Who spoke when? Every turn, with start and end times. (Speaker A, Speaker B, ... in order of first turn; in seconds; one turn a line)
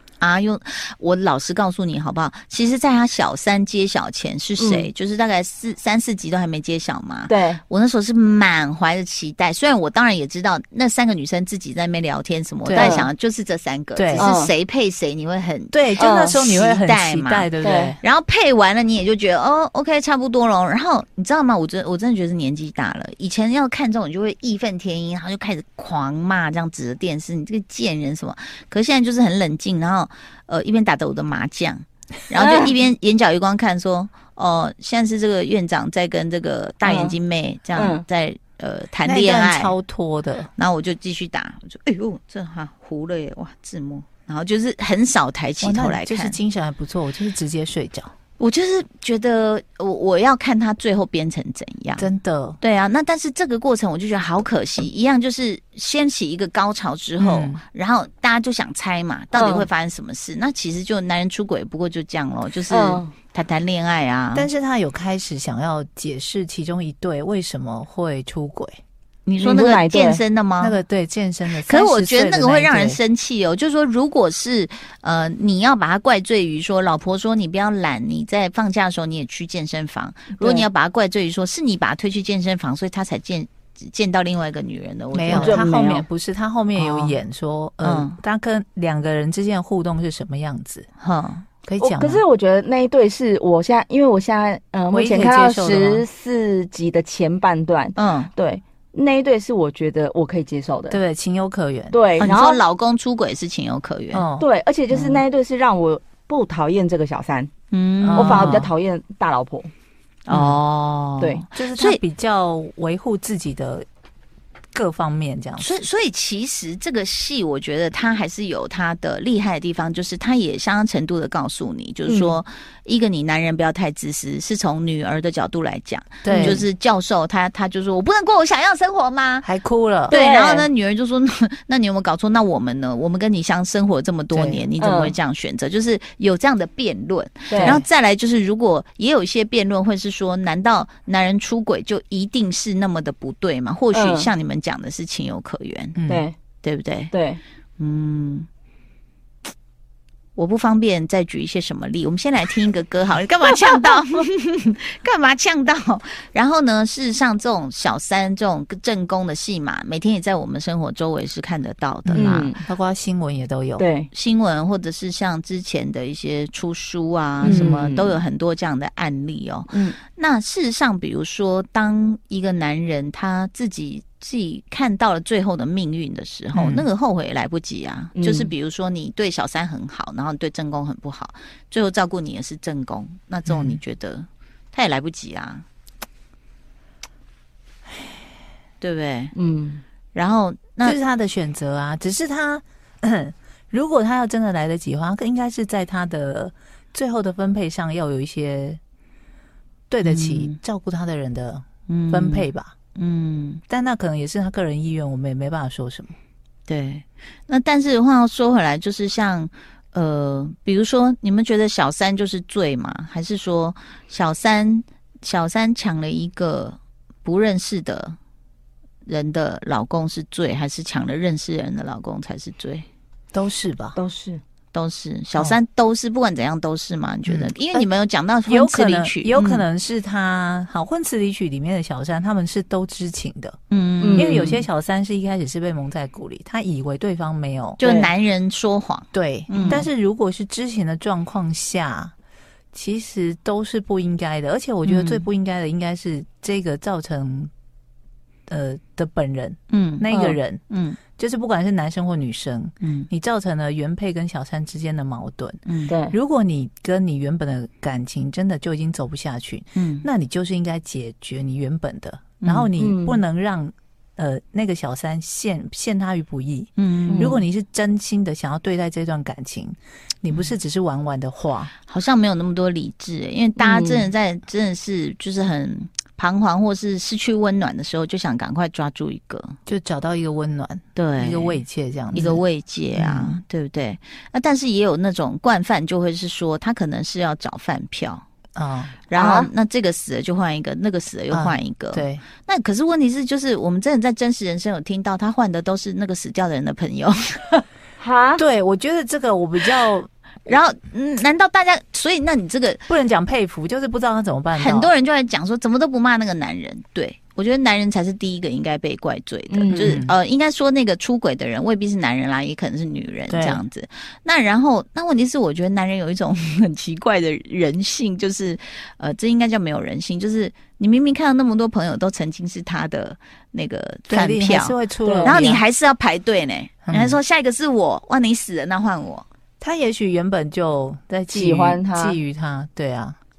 Speaker A: 0.2-39.8
Speaker B: 4.6-4.9
Speaker B: 7.3-7.6
Speaker C: 12.6-13.0
Speaker B: 12.8-13.1
Speaker C: 13.9-14.3
Speaker B: 14.2-14.5
Speaker C: 15.7-18.0
Speaker B: 16.0-16.4
Speaker B: 17.6-17.9
Speaker B: 32.4-32.7
Speaker B: 36.8-37.1
Speaker B: 37.8-38.0
Speaker C: 39.0-40.5
Speaker A: 40.6-46.4
Speaker C: 45.6-48.1
Speaker A: 48.4-52.1
Speaker C: 52.0-52.6
Speaker A: 52.6-64.5
Speaker C: 57.2-57.6
Speaker B: 59.4-59.7
Speaker B: 62.7-63.1
Speaker C: 64.3-68.8
Speaker A: 69.2-70.8
Speaker B: 69.4-70.2
Speaker C: 70.6-73.0
Speaker A: 71.6-85.6
Speaker B: 80.4-80.7
Speaker C: 85.1-90.9
Speaker B: 85.3-86.1
Speaker A: 87.8-88.2
Speaker A: 91.0-91.5
Speaker C: 91.7-92.2
Speaker B: 91.8-101.0
Speaker C: 94.9-96.0
Speaker A: 98.0-98.3
Speaker C: 100.9-102.0
Speaker B: 101.9-102.6
Speaker A: 102.2-104.3
Speaker C: 104.1-104.5
Speaker B: 104.4-107.5
Speaker A: 107.7-108.7
Speaker C: 108.0-108.7
Speaker B: 108.2-109.7
Speaker A: 110.2-112.0
Speaker C: 110.3-110.6
Speaker B: 111.2-111.5
Speaker C: 111.5-113.8
Speaker C: 114.7-115.8
Speaker A: 115.6-129.5
Speaker B: 122.1-122.4
Speaker C: 126.2-126.6
Speaker B: 126.2-126.6
Speaker C: 129.4-130.2
Speaker A: 130.1-146.0
Speaker B: 130.1-130.7
Speaker C: 134.3-134.7
Speaker B: 134.8-135.1
Speaker B: 137.5-137.8
Speaker C: 137.6-137.9
Speaker B: 143.9-144.3
Speaker C: 146.0-146.3
Speaker B: 146.1-146.3
Speaker A: 146.6-147.1
Speaker B: 147.1-147.4
Speaker A: 147.8-148.5
Speaker A: 150.4-162.5
Speaker C: 162.0-163.9
Speaker B: 162.1-162.6
Speaker B: 163.8-164.1
Speaker A: 164.1-185.6
Speaker C: 167.4-167.8
Speaker B: 167.4-168.2
Speaker B: 169.7-170.0
Speaker C: 176.5-176.9
Speaker B: 178.2-178.5
Speaker C: 183.5-183.8
Speaker A: 188.8-189.3
Speaker B: 189.4-189.8
Speaker A: 190.1-191.0
Speaker C: 190.8-198.8
Speaker C: 199.9-202.8
Speaker A: 200.0-200.6
Speaker A: 201.9-203.6
Speaker C: 203.7-206.1
Speaker A: 206.7-218.2
Speaker A: 219.1-222.9
Speaker C: 223.3-223.9
Speaker B: 223.9-224.4
Speaker A: 224.7-229.6
Speaker C: 227.3-227.9
Speaker C: 228.4-233.6
Speaker A: 233.7-234.6
Speaker B: 234.0-234.5
Speaker C: 234.1-237.8
Speaker A: 237.8-239.9
Speaker B: 237.8-238.1
Speaker C: 239.1-242.1
Speaker C: 242.7-247.5
Speaker A: 244.9-245.2
Speaker C: 248.5-250.6
Speaker A: 249.7-250.1
Speaker B: 250.1-250.4
Speaker A: 250.7-251.0
Speaker C: 251.2-271.7
Speaker A: 252.8-253.1
Speaker A: 255.7-255.9
Speaker B: 255.9-256.2
Speaker A: 259.8-260.1
Speaker A: 262.4-262.7
Speaker B: 262.8-263.2
Speaker A: 266.8-267.4
Speaker B: 267.1-267.4
Speaker A: 271.9-279.6
Speaker B: 273.6-274.1
Speaker C: 279.6-282.4
Speaker A: 280.9-288.2
Speaker C: 282.9-283.4
Speaker C: 288.6-289.1
Speaker A: 289.1-297.6
Speaker B: 289.1-289.5
Speaker C: 291.3-292.2
Speaker B: 298.0-298.4
Speaker C: 298.4-300.1
Speaker A: 300.4-302.8
Speaker C: 302.9-304.9
Speaker A: 304.6-329.3
Speaker B: 309.5-309.9
Speaker C: 309.7-310.1
Speaker C: 313.3-313.6
Speaker C: 324.1-325.6
Speaker B: 325.0-325.3
Speaker C: 326.9-327.2
Speaker C: 329.6-333.2
Speaker B: 331.3-332.2